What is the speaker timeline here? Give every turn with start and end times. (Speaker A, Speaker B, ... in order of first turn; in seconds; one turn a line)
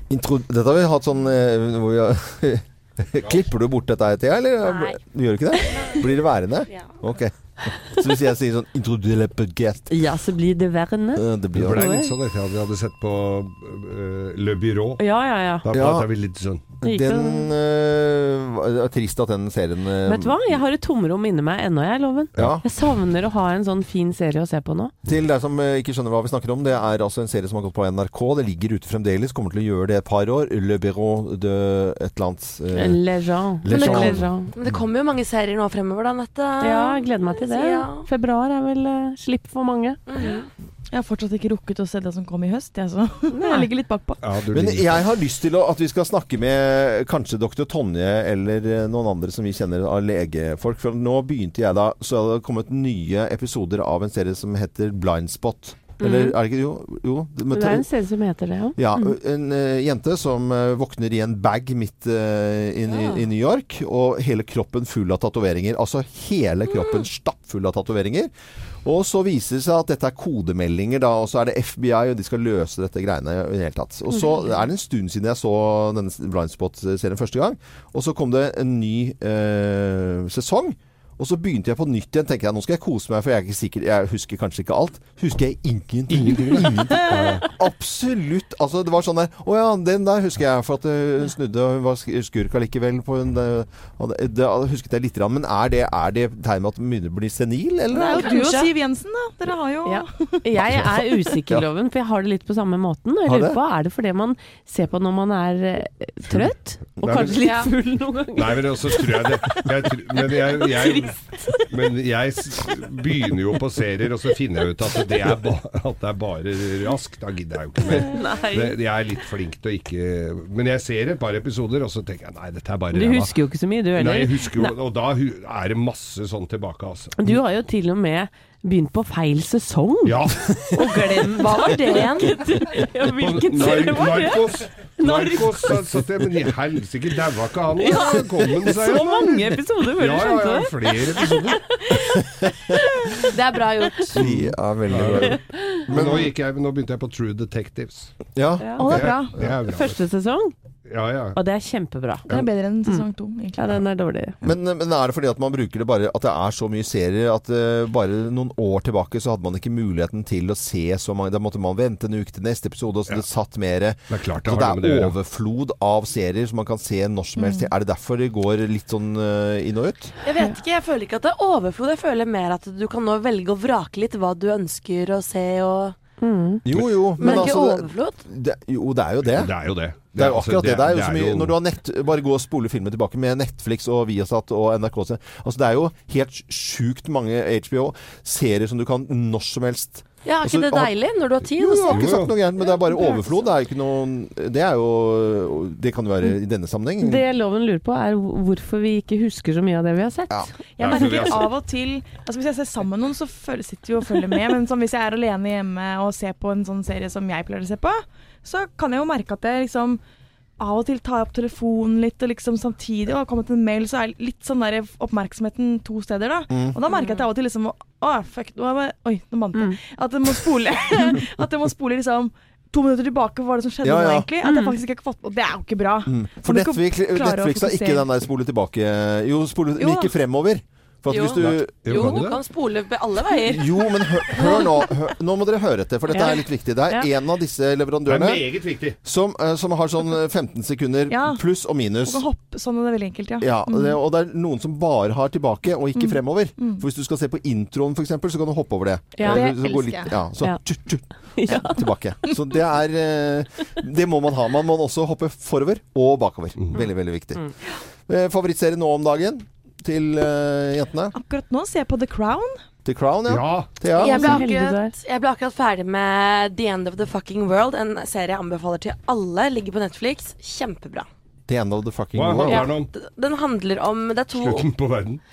Speaker A: 0.1-9.9
Speaker B: 4.7-4.9
Speaker C: 9.9-12.1
Speaker A: 11.2-11.9
Speaker D: 11.6-15.0
Speaker C: 15.0-15.7
Speaker D: 15.6-16.7
Speaker A: 15.7-16.1
Speaker A: 16.8-20.6
Speaker C: 16.8-17.5
Speaker C: 20.1-24.9
Speaker A: 22.4-22.6
Speaker A: 25.1-33.0
Speaker C: 32.7-34.5
Speaker A: 33.6-34.8
Speaker B: 33.7-38.1
Speaker C: 36.6-40.0
Speaker B: 40.1-40.5
Speaker E: 40.9-44.2
Speaker C: 43.3-43.7
Speaker D: 44.2-45.0
Speaker A: 44.5-57.9
Speaker C: 56.0-56.4
Speaker C: 57.5-58.8
Speaker A: 58.8-68.3
Speaker A: 68.8-98.3
Speaker D: 86.1-87.5
Speaker E: 97.9-100.4
Speaker B: 98.3-98.7
Speaker C: 99.9-109.6
Speaker A: 103.3-103.6
Speaker D: 106.3-107.4
Speaker A: 107.0-107.3
Speaker D: 108.3-123.3
Speaker C: 110.6-111.6
Speaker C: 117.9-118.8
Speaker C: 122.9-124.8
Speaker D: 123.9-127.2
Speaker C: 127.2-135.8
Speaker D: 130.1-130.8
Speaker B: 131.2-132.4
Speaker D: 133.0-141.7
Speaker C: 137.8-143.3
Speaker A: 142.1-142.8
Speaker B: 143.3-144.2
Speaker A: 144.1-146.3
Speaker D: 144.2-148.1
Speaker C: 145.5-145.9
Speaker A: 148.3-149.5
Speaker C: 148.6-148.9
Speaker E: 148.8-149.4
Speaker D: 148.8-150.0
Speaker C: 149.6-150.5
Speaker D: 150.9-151.4
Speaker C: 151.3-153.0
Speaker E: 152.3-153.7
Speaker C: 153.6-154.4
Speaker A: 154.4-170.1
Speaker D: 164.1-165.2
Speaker E: 167.4-167.7
Speaker B: 170.2-176.0
Speaker C: 176.2-176.6
Speaker A: 176.7-179.5
Speaker B: 177.2-178.2
Speaker D: 179.3-181.6
Speaker A: 180.1-190.9
Speaker B: 190.2-192.2
Speaker A: 191.6-197.2
Speaker D: 191.9-192.3
Speaker C: 197.0-200.5
Speaker D: 200.8-201.5
Speaker E: 200.8-210.0
Speaker E: 210.6-228.1
Speaker A: 216.5-216.8
Speaker A: 223.8-224.3
Speaker C: 224.4-224.8
Speaker A: 226.1-232.2
Speaker E: 229.8-230.1
Speaker B: 231.1-234.7
Speaker D: 231.3-232.4
Speaker A: 233.4-242.2
Speaker C: 236.1-237.1
Speaker D: 238.1-239.0
Speaker E: 241.1-241.4
Speaker E: 242.0-243.9
Speaker A: 243.4-257.5
Speaker E: 246.0-246.8
Speaker C: 249.2-249.5
Speaker E: 249.2-250.2
Speaker C: 251.4-251.8
Speaker A: 258.1-261.1
Speaker E: 261.1-262.6
Speaker A: 262.9-264.4
Speaker D: 263.3-263.7
Speaker B: 263.9-271.1
Speaker C: 264.0-264.9
Speaker A: 271.5-272.7
Speaker D: 272.1-272.9
Speaker B: 272.5-274.7
Speaker D: 274.4-275.2